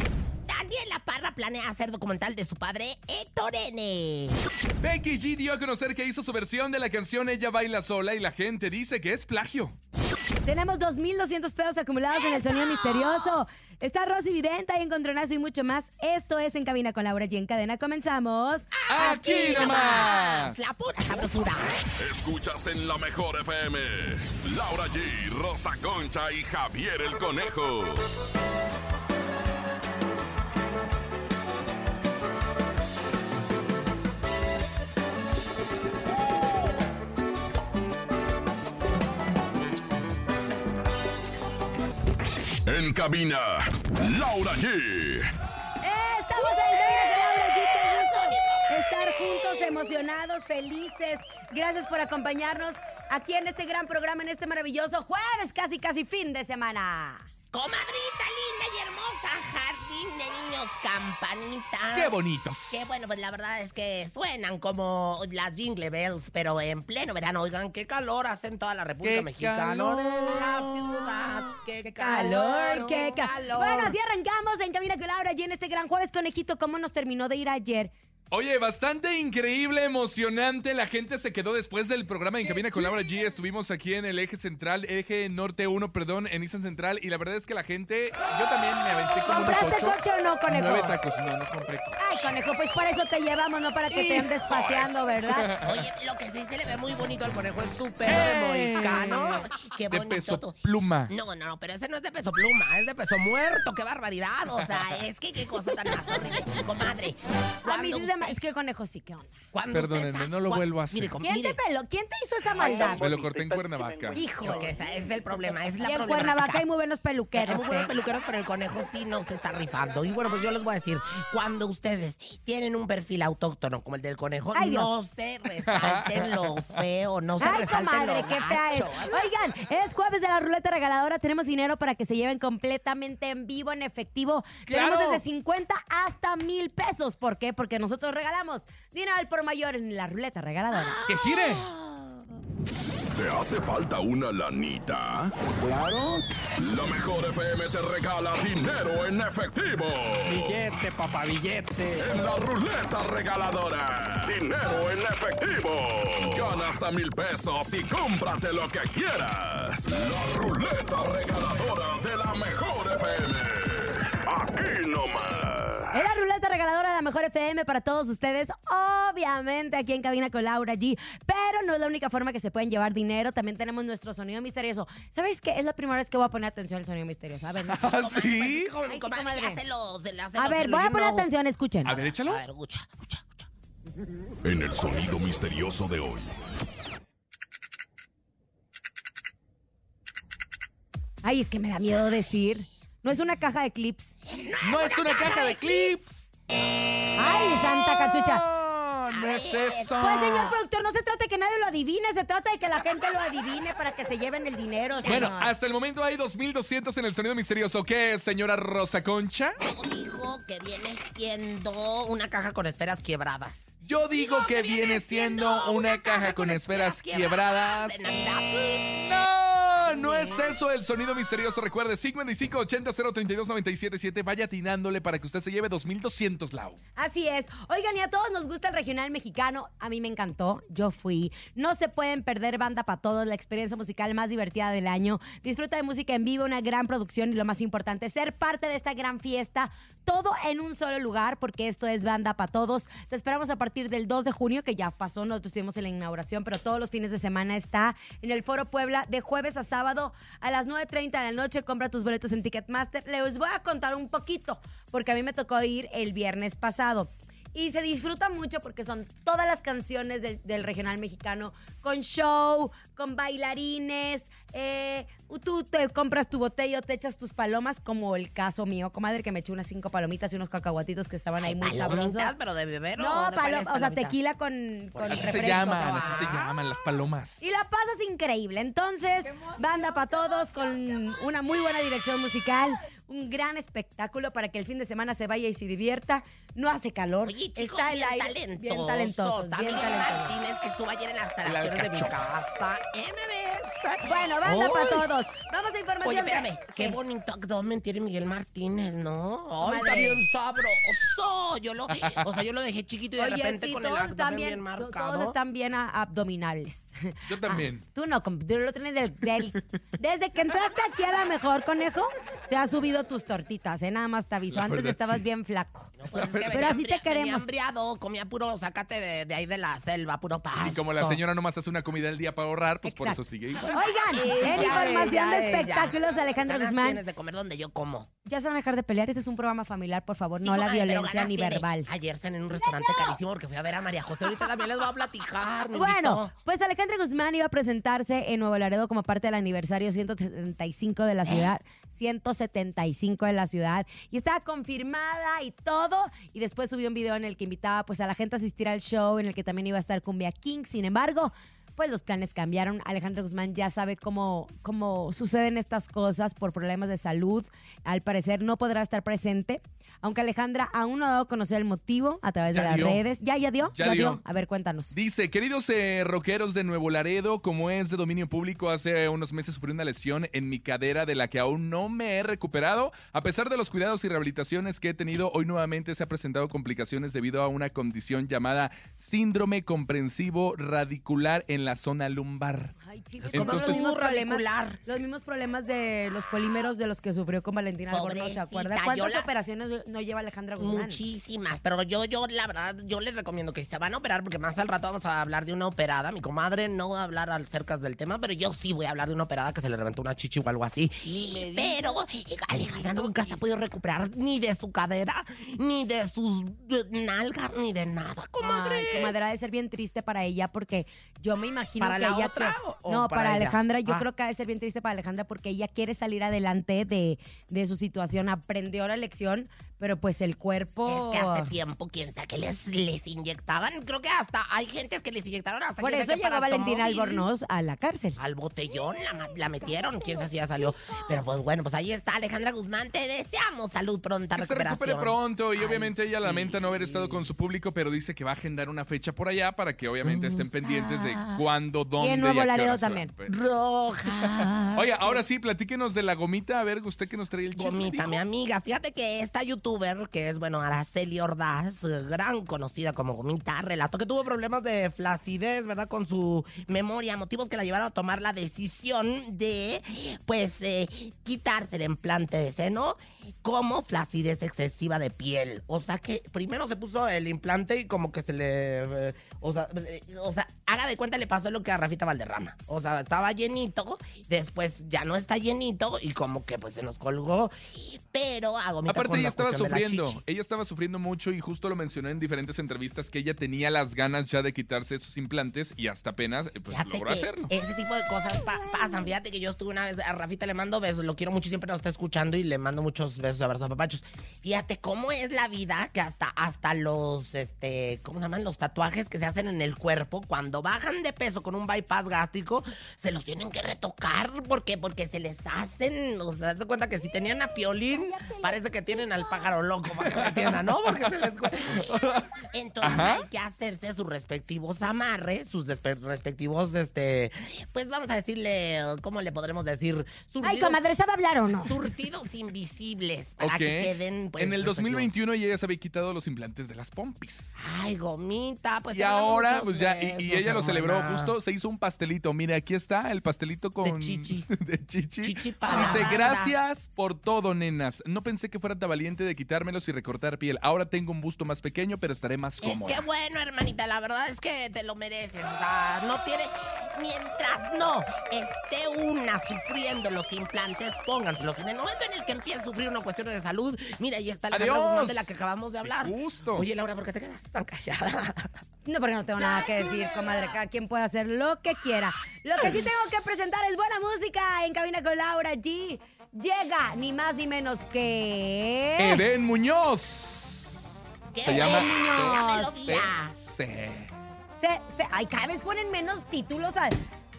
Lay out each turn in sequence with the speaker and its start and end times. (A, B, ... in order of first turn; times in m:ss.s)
0:00.5-0:04.4 A
0:04.8-0:09.8 B
0:10.4-0:20.1 C
0:12.2-0:13.4 A
0:18.7-0:21.9 A
0:18.9-0:20.6 B
0:22.0-0:28.1 D
0:42.7-0:45.3 D
0:45.8-0:57.3 C
0:47.1-0:49.7 A
0:57.5-1:02.2 A
1:01.9-1:02.8 B
1:02.7-1:14.0 A
1:09.0-1:11.4 B
1:11.8-1:17.9 C
1:18.3-1:30.0 B
1:29.3-1:31.0 C
1:30.5-1:32.3 B
1:32.0-1:35.5 C
1:33.9-1:35.8 B
1:35.6-1:40.6 A
1:38.1-1:41.1 B
1:41.1-1:48.4 A
1:47.6-1:49.3 C
1:49.5-1:51.6 A
1:49.7-1:51.1 B
1:51.2-1:53.0 C
1:52.6-1:54.6 B
1:52.7-1:53.9 E
1:54.1-1:54.7 C
1:54.4-1:56.7 A
1:55.8-1:57.9 C
1:57.3-2:09.3 A
2:04.6-2:04.9 C
2:05.6-2:06.6 B
2:07.4-2:21.0 C
2:14.7-2:15.2 B
2:20.7-2:22.2 A
2:21.1-2:21.7 B
2:23.2-2:25.3 D
2:25.6-2:26.2 E
2:26.6-2:30.6 D
2:30.2-2:32.1 E
2:32.0-2:45.9 D
2:45.9-2:57.9 C
2:57.7-2:58.7 B
2:57.8-3:01.3 A
2:58.9-2:59.6 C
3:00.4-3:01.9 C
3:01.8-3:02.4 B
3:01.8-3:03.5 A
3:04.4-3:06.3 D
3:11.2-3:14.1 C
3:14.3-3:16.2 A
3:14.6-3:16.1 B
3:17.2-3:18.4 C
3:17.4-3:20.5 B
3:19.1-3:20.2 A
3:20.0-3:25.5 C
3:24.9-3:25.3 A
3:25.0-3:29.6 B
3:29.6-3:38.9 A
3:33.8-3:38.0 B
3:39.0-3:46.8 B
3:39.9-3:40.4 C
3:47.0-4:32.3 C
4:31.4-4:34.2 A
4:33.0-4:36.2 C
4:34.9-4:36.5 A
4:35.1-4:37.4 B
4:37.4-4:50.4 C
4:47.2-4:55.1 A
4:51.4-4:52.2 B
4:54.0-4:57.0 C
4:56.0-5:05.4 A
4:59.6-5:00.2 C
5:01.9-5:02.3 B
5:03.2-5:15.9 C
5:07.3-5:07.8 B
5:14.5-5:15.2 B
5:16.0-5:21.2 A
5:16.1-5:16.8 B
5:16.5-5:17.5 C
5:20.6-5:23.8 B
5:22.8-5:27.0 C
5:23.8-5:28.1 A
5:24.4-5:25.1 B
5:28.2-5:31.9 C
5:30.4-5:36.3 A
5:32.6-5:33.1 C
5:35.7-6:04.9 C
5:41.2-5:41.5 A
6:02.5-6:03.0 B
6:03.7-6:04.2 B
6:04.9-6:23.8 B
6:22.8-6:31.0 C
6:23.3-6:24.8 A
6:27.9-6:29.3 A
6:30.6-6:49.1 A
6:41.6-6:42.0 E
6:48.4-7:01.5 C
6:51.8-6:54.1 A
7:00.9-7:07.3 A
7:05.8-7:08.2 C
7:08.2-7:17.3 A
7:14.4-7:23.3 B
7:20.0-7:21.4 A
7:22.0-7:23.1 C
7:23.3-7:25.2 A
7:24.8-7:28.2 B
7:27.6-8:00.2 A
7:58.9-8:07.5 B
8:06.7-8:40.8 A
8:27.9-8:29.4 C
8:30.1-8:31.1 B
8:31.9-8:32.3 B
8:32.8-8:33.2 B
8:40.4-8:41.8 C
8:41.6-8:45.1 A
8:43.4-8:47.5 B
8:47.6-8:51.4 A
8:48.9-9:03.0 B
8:53.8-8:54.5 A
8:55.2-8:56.5 A
9:02.6-9:18.5 A
9:14.5-9:15.3 B
9:15.8-9:16.7 B
9:18.8-9:29.2 C
9:19.7-9:20.2 A
9:29.0-9:30.8 B
9:31.3-9:33.3 A
9:31.4-9:34.1 B
9:31.5-9:32.7 C
9:34.6-9:37.0 C